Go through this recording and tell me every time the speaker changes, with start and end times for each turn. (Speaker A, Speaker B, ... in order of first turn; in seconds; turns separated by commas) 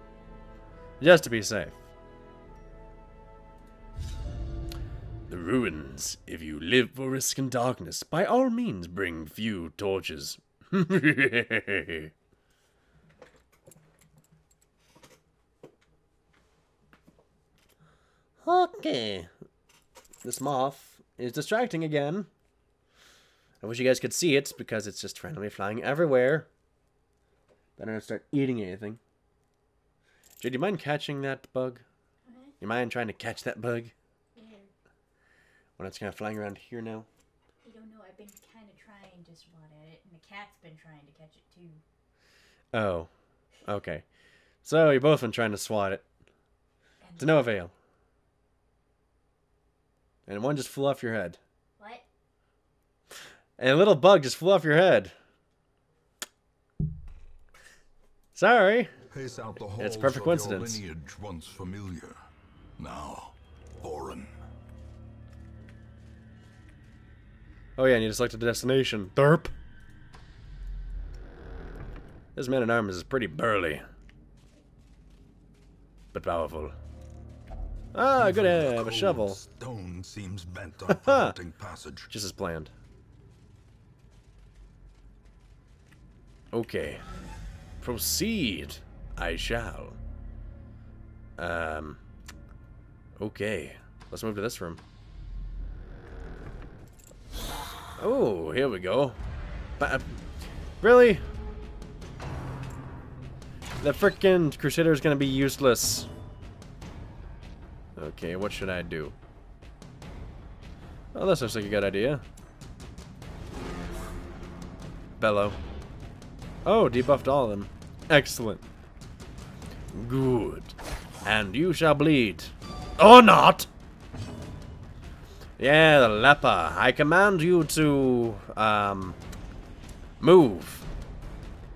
Speaker A: 1.0-1.8, Speaker A: 5.3-12.1, Speaker A: 18.4-19.3, Speaker A: 20.2-22.3, Speaker A: 23.6-26.5, Speaker A: 27.8-29.0, Speaker A: 30.4-31.8, Speaker B: 32.3-32.5, Speaker A: 32.6-33.9, Speaker B: 34.4-34.7, Speaker A: 35.8-37.1, Speaker B: 37.6-41.8, Speaker A: 42.7-43.1, Speaker A: 43.7-44.0, Speaker A: 44.6-46.0, Speaker B: 47.0-47.5, Speaker A: 47.2-47.7, Speaker A: 50.3-51.4, Speaker B: 51.8-52.0, Speaker A: 53.6-55.1, Speaker A: 58.4-58.9, Speaker C: 59.1-62.2, Speaker A: 59.8-60.8, Speaker C: 62.8-64.3, Speaker A: 67.8-69.5, Speaker A: 72.3-73.8, Speaker A: 76.1-76.8, Speaker A: 77.9-79.4, Speaker C: 78.2-82.1, Speaker A: 80.9-81.3, Speaker A: 82.1-82.7, Speaker A: 86.5-87.0, Speaker A: 87.8-90.0, Speaker A: 91.4-92.0, Speaker A: 93.2-94.8, Speaker A: 98.0-99.2, Speaker A: 99.8-100.2, Speaker A: 100.8-101.2, Speaker A: 103.8-106.1, Speaker A: 108.0-109.2, Speaker A: 111.1-112.2, Speaker A: 115.2-115.6, Speaker A: 116.7-118.7, Speaker A: 119.9-123.7, Speaker A: 125.6-129.2, Speaker A: 130.2-130.9